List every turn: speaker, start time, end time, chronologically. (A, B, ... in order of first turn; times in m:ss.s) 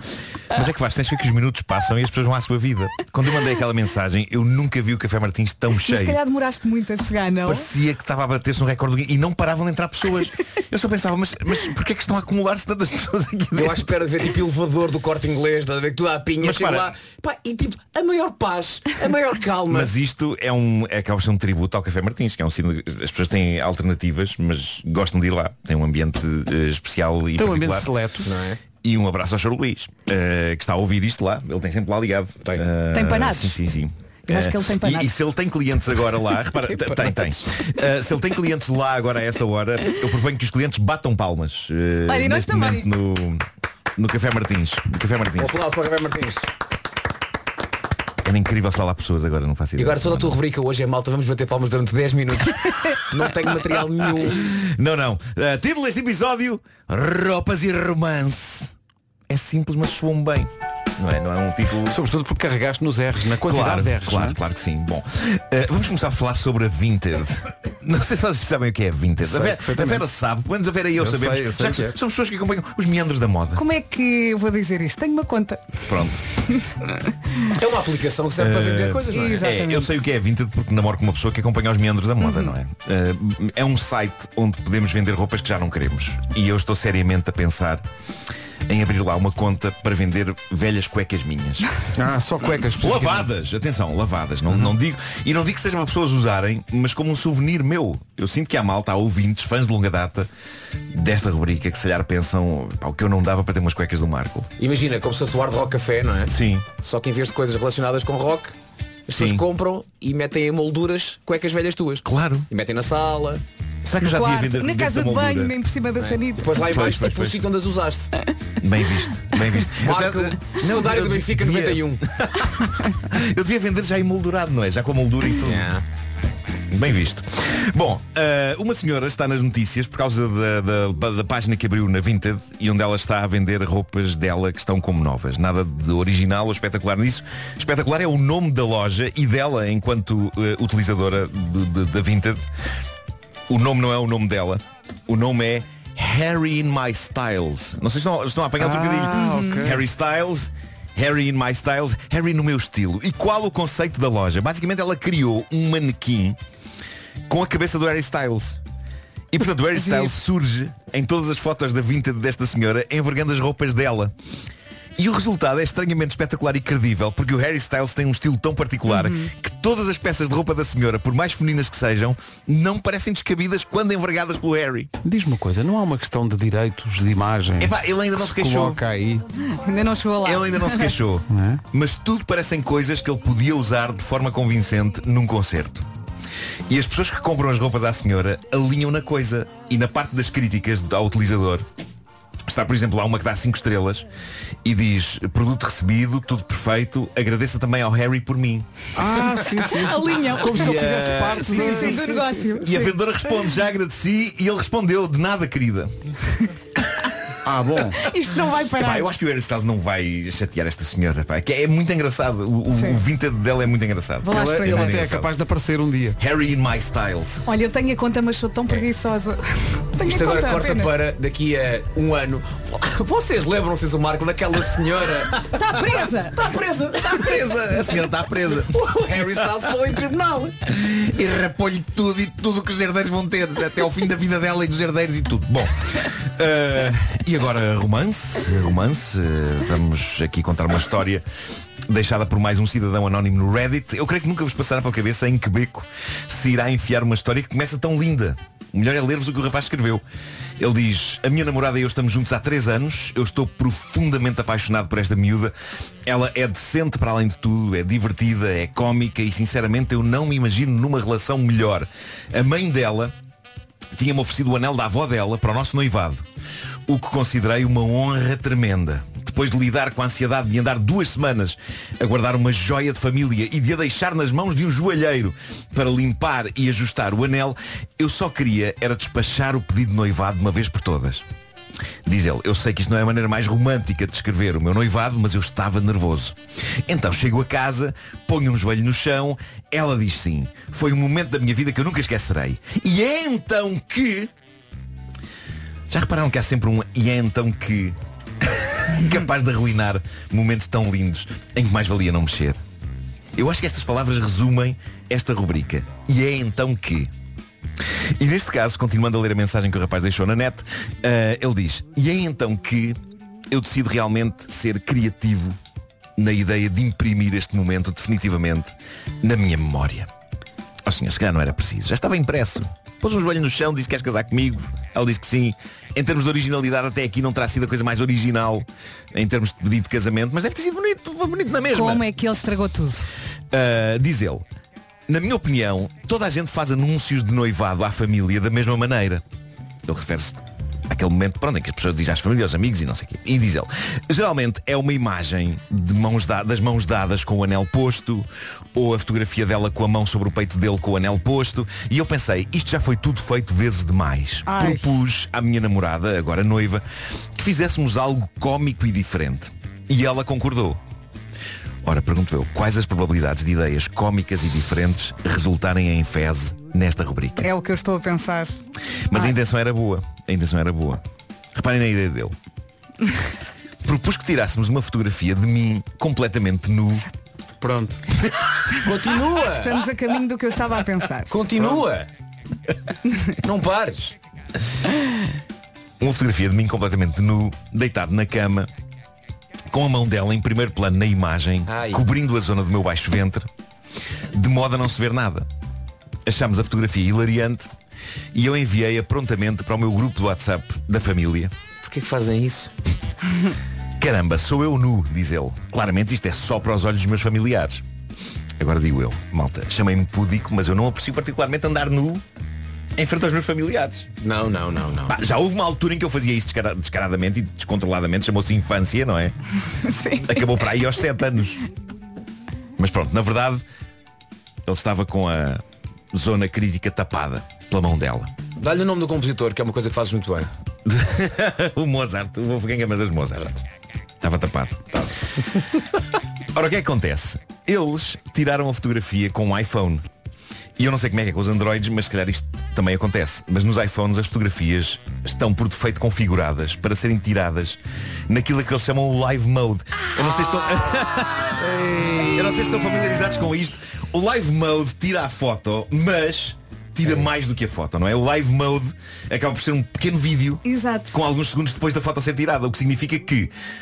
0:00.5-0:06.2 A
0:05.8-0:07.7 B
0:07.4-0:13.9 A
0:13.5-0:19.9 C
0:16.4-0:16.9 A
0:19.7-0:27.9 A
0:27.4-0:28.3 D
0:28.2-0:28.6 C
0:28.8-0:43.4 A
0:32.9-0:33.6 B
0:34.3-0:35.1 B
0:36.7-0:37.5 C
0:42.1-0:42.9 B
0:44.0-0:45.6 A
0:45.4-0:46.5 C
0:48.2-0:50.4 A
0:49.8-0:54.5 C
0:54.3-0:58.7 A
0:59.3-1:02.0 A
1:01.8-1:04.4 D
1:03.4-1:13.6 A
1:09.2-1:10.0 D
1:11.0-1:12.0 D
1:13.5-1:15.8 B
1:15.8-1:16.2 A
1:17.5-1:19.5 C
1:18.4-1:27.8 A
1:19.1-1:20.0 B
1:22.2-1:22.5 B
1:28.6-1:31.7 A
1:31.9-1:33.3 D
1:32.8-1:40.3 A
1:40.9-1:44.5 A
1:44.6-1:48.6 C
1:46.3-1:46.7 A
1:49.1-1:53.4 C
1:49.1-1:49.4 A
1:52.0-1:52.4 A
1:53.8-1:55.5 A
1:54.0-1:56.6 B
1:56.0-1:58.1 C
1:56.6-1:57.4 A
1:58.6-2:05.8 A
1:59.7-2:02.0 C
2:05.4-2:05.8 C
2:06.7-2:22.4 A
2:23.5-2:36.4 A
2:28.6-2:29.8 D
2:29.1-2:29.6 B
2:37.3-2:38.6 A
2:39.3-2:44.1 A
2:39.8-2:40.1 B
2:45.0-2:54.9 A
2:48.9-2:49.3 B
2:55.0-2:59.2 D
2:57.6-2:58.8 A
2:59.5-3:00.9 B
3:00.2-3:05.9 A
3:01.3-3:01.6 D
3:06.7-3:11.6 A
3:12.5-3:14.0 A
3:14.6-3:18.7 A
3:19.0-3:22.7 D
3:19.6-3:20.8 B
3:20.5-3:22.0 A
3:21.4-3:22.9 B
3:22.6-3:25.9 A
3:27.4-3:28.0 D
3:28.0-3:29.1 B
3:28.8-3:35.3 A
3:34.2-3:35.0 B
3:34.3-3:36.2 D
3:36.2-3:37.4 A
3:37.4-3:40.9 B
3:40.0-3:45.8 C
3:45.6-3:46.4 B
3:46.3-3:50.5 C
3:47.0-3:49.4 A
3:50.7-4:01.2 A
4:01.9-4:10.0 A
4:10.6-4:15.5 A
4:16.0-4:23.1 A
4:23.9-4:26.2 A
4:26.9-4:41.2 A
4:42.0-4:54.3 A
4:55.9-5:02.6 A
5:03.4-5:07.1 A
5:08.2-5:13.0 A
5:13.5-5:15.6 A
5:16.2-5:20.1 A
5:20.8-5:32.0 A
5:31.7-5:33.1 B
5:33.5-5:34.4 A
5:35.1-5:39.2 A
5:39.8-5:40.4 A
5:40.9-5:56.8 A
5:54.4-5:55.0 B
5:57.3-6:00.8 A
6:01.8-6:07.5 A
6:07.4-6:08.6 B
6:09.1-6:11.0 A
6:11.5-6:12.3 A
6:13.8-6:17.0 A
6:17.6-6:18.0 D
6:18.7-6:19.8 C
6:19.4-6:21.4 B
6:21.3-6:22.1 C
6:23.4-6:24.1 C
6:26.0-6:28.7 A
6:29.7-6:33.5 A
6:31.7-6:32.0 C
6:34.3-6:35.5 A
6:36.2-6:37.7 A
6:38.3-6:41.5 A
6:41.8-6:42.7 C
6:44.0-6:47.8 A
6:48.6-6:52.2 A
6:53.0-6:54.1 A
6:54.2-6:55.2 C
6:55.1-6:59.3 A
6:59.8-7:00.4 B
7:00.2-7:01.6 A
7:02.8-7:03.6 A
7:04.7-7:08.3 A
7:08.6-7:10.5 C
7:10.8-7:13.6 A
7:14.2-7:15.1 A
7:16.5-7:20.0 A
7:20.8-7:43.5 A
7:31.7-7:32.2 D
7:40.6-7:41.2 B